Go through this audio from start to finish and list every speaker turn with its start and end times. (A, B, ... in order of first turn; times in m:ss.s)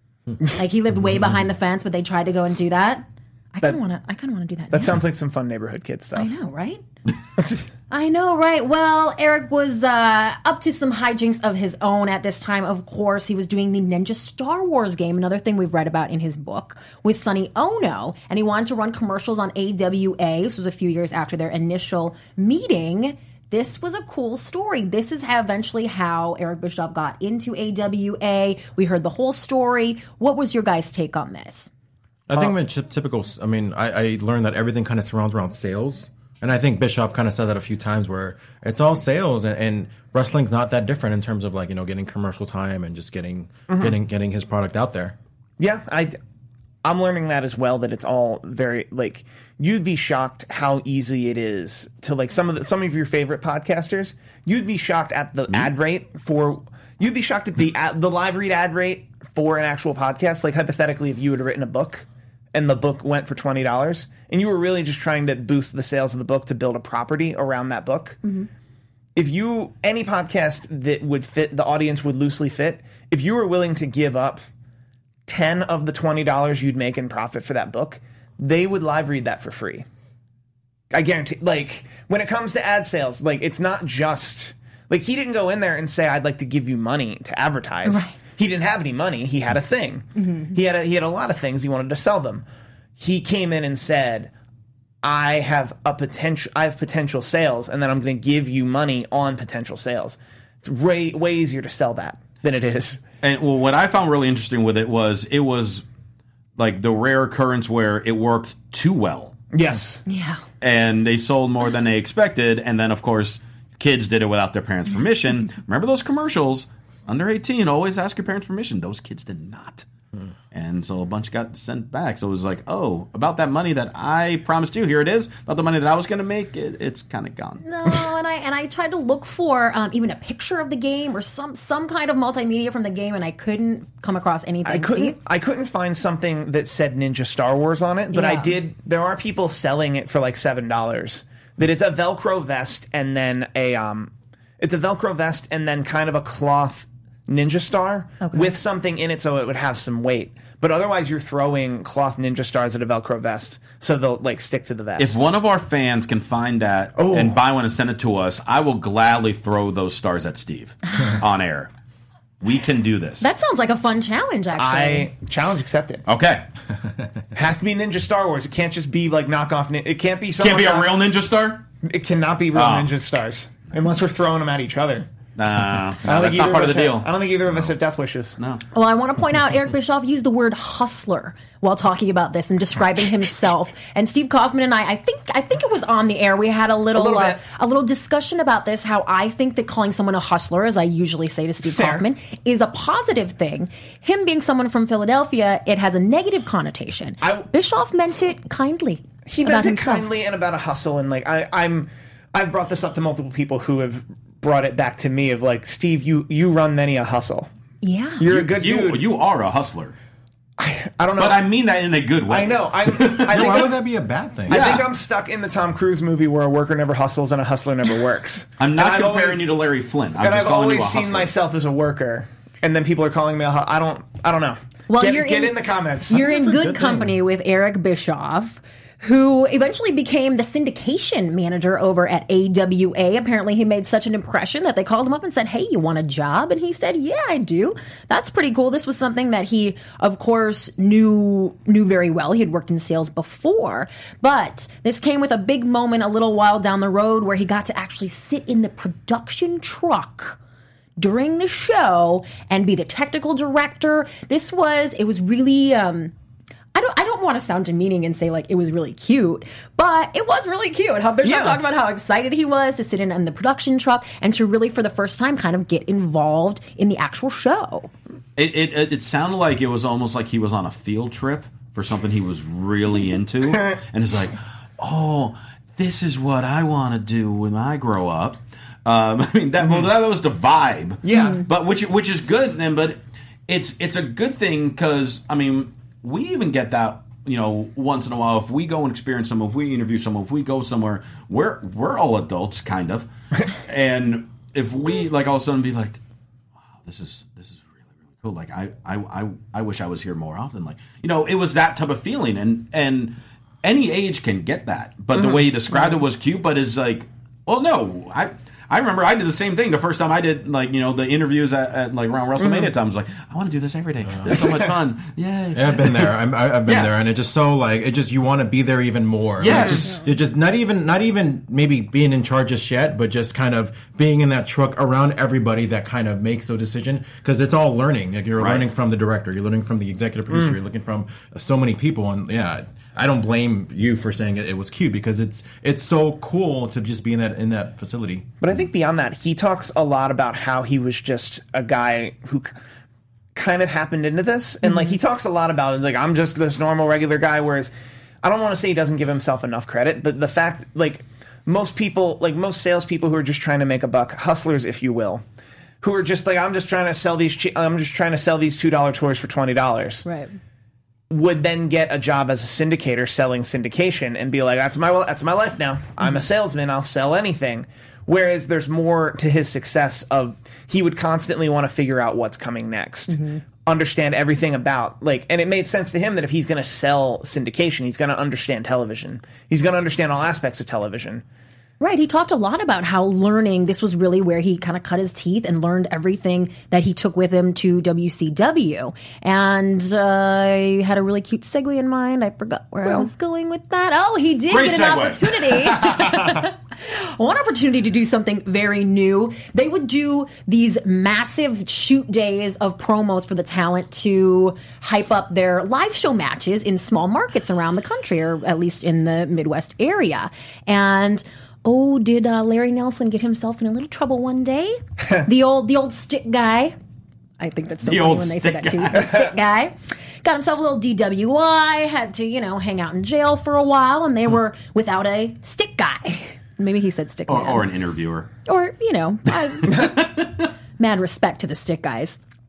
0:00.5-0:04.9 A
0:04.7-0:06.3 B
0:06.2-0:06.8 A
0:07.4-0:07.7 B
0:07.9-0:31.7 A
0:32.3-0:45.2 C
0:43.7-0:44.0 B
0:45.6-0:46.2 B
0:46.8-1:08.3 B
1:09.2-1:14.4 B
1:15.3-1:19.9 B
1:20.9-1:32.5 B
1:27.9-1:28.2 A
1:33.0-1:34.3 B
1:35.0-1:43.0 B
1:43.2-1:45.8 D
1:46.6-1:49.4 D
1:49.5-1:50.0 B
1:50.1-1:50.4 A
1:50.6-1:59.9 D
2:00.5-2:07.6 D
2:07.6-2:15.2 A
2:14.6-2:35.2 B
2:18.1-2:18.6 A
2:28.2-2:28.5 A
2:35.0-2:41.7 D
2:37.0-2:37.4 B
2:42.4-2:43.3 D
2:43.2-2:45.1 A
2:44.6-2:46.0 B
2:46.1-2:46.5 D
2:47.3-2:50.9 B
2:50.4-2:51.7 D
2:51.8-2:55.1 B
2:52.5-2:52.9 D
2:55.4-2:57.1 D
2:56.0-2:58.4 B
2:58.7-3:20.1 A
3:07.0-3:07.4 B
3:11.6-3:12.0 B
3:17.2-3:17.5 B
3:19.3-3:27.5 B
3:27.8-3:28.2 A
3:28.2-3:29.0 B
3:28.3-3:30.0 D
3:30.6-3:31.4 B
3:31.2-3:33.8 D
3:32.3-3:33.8 B
3:33.3-3:34.8 C
3:34.5-3:39.5 B
3:34.5-3:34.9 D
3:38.6-3:41.3 D
3:40.2-3:46.4 B
3:44.9-4:10.4 A
3:46.2-3:47.1 C
4:11.0-4:16.1 A
4:16.7-4:27.9 A
4:21.2-4:21.6 B
4:28.4-4:56.0 D
4:41.0-4:41.4 B
4:56.8-5:16.2 D
5:05.1-5:06.0 B
5:12.4-5:12.7 B
5:14.0-5:14.4 C
5:14.3-5:14.5 B
5:15.5-5:38.3 C
5:16.7-5:16.9 D
5:19.4-5:20.0 D
5:19.5-5:19.8 B
5:28.4-5:28.6 D
5:38.4-5:42.5 B
5:43.4-5:47.7 B
5:44.6-5:45.0 A
5:48.2-5:55.2 B
5:55.8-6:00.1 B
6:00.1-6:00.3 A
6:01.1-6:21.2 B
6:13.1-6:13.4 A
6:21.8-6:56.8 A
6:34.5-6:36.2 D
6:57.4-7:07.6 A
6:57.8-6:59.1 D
7:07.3-7:08.3 D
7:08.5-7:10.0 A
7:09.7-7:10.3 D
7:10.8-7:12.2 A